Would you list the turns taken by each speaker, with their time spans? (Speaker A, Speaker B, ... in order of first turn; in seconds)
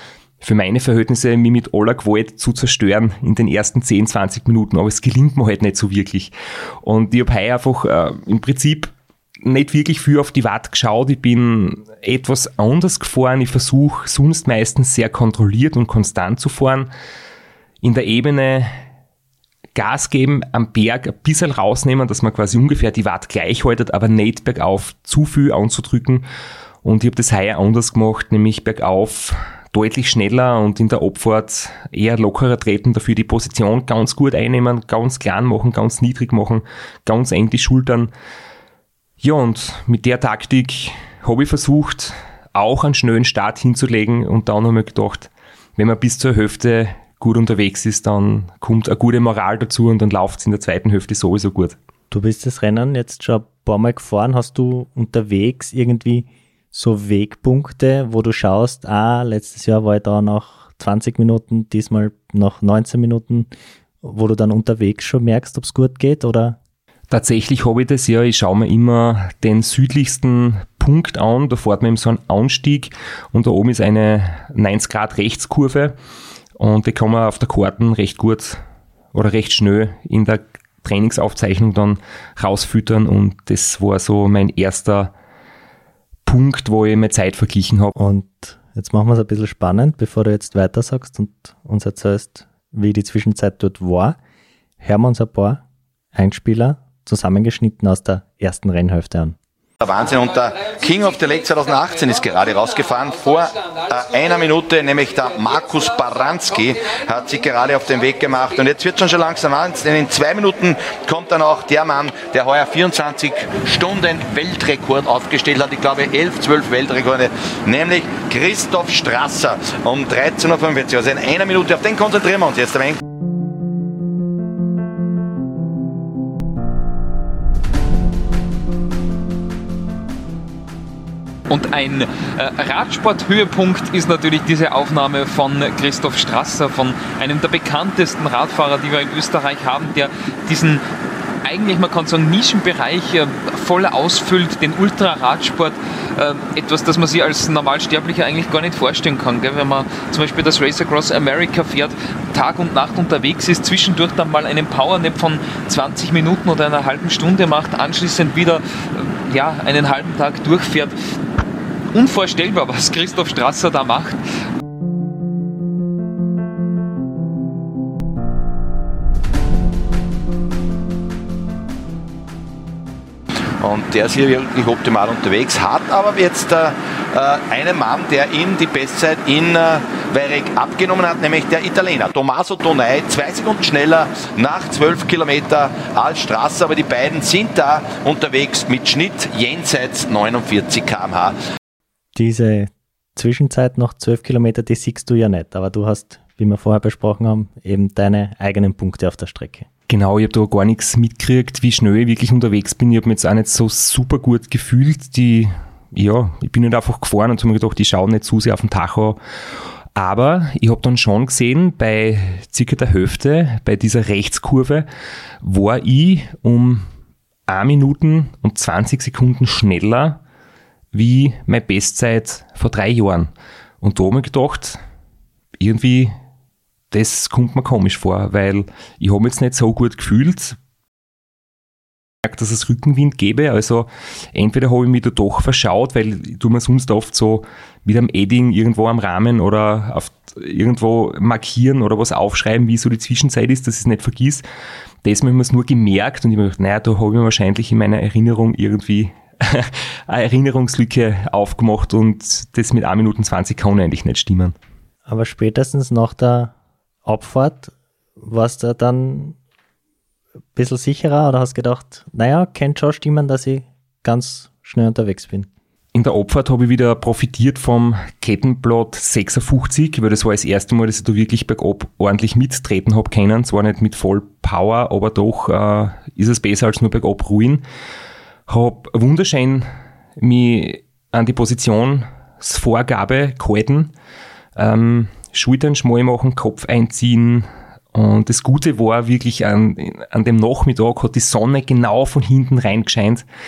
Speaker A: 0.4-16.9, 17.8-18.8, 19.7-26.2, 26.8-38.1, 39.2-51.8, 67.1-76.0, 76.6-78.6, 79.1-85.1, 86.2-87.9, 199.9-209.2, 209.9-214.9, 215.4-216.8, 217.5-220.2, 220.9-224.8, 225.6-226.2, 226.9-230.6, 232.2-244.4, 245.0-254.6, 265.9-277.6, 278.5-283.9, 284.6-293.2
Speaker B: 52.1-63.5, 64.0-66.6, 88.0-94.2, 94.8-95.6, 96.1-99.3, 192.1-199.7, 255.1-256.5, 257.1-259.4, 260.5-265.5
Speaker C: 99.8-123.0, 173.6-191.3
Speaker D: 131.5-140.8, 141.4-160.9, 161.9-164.2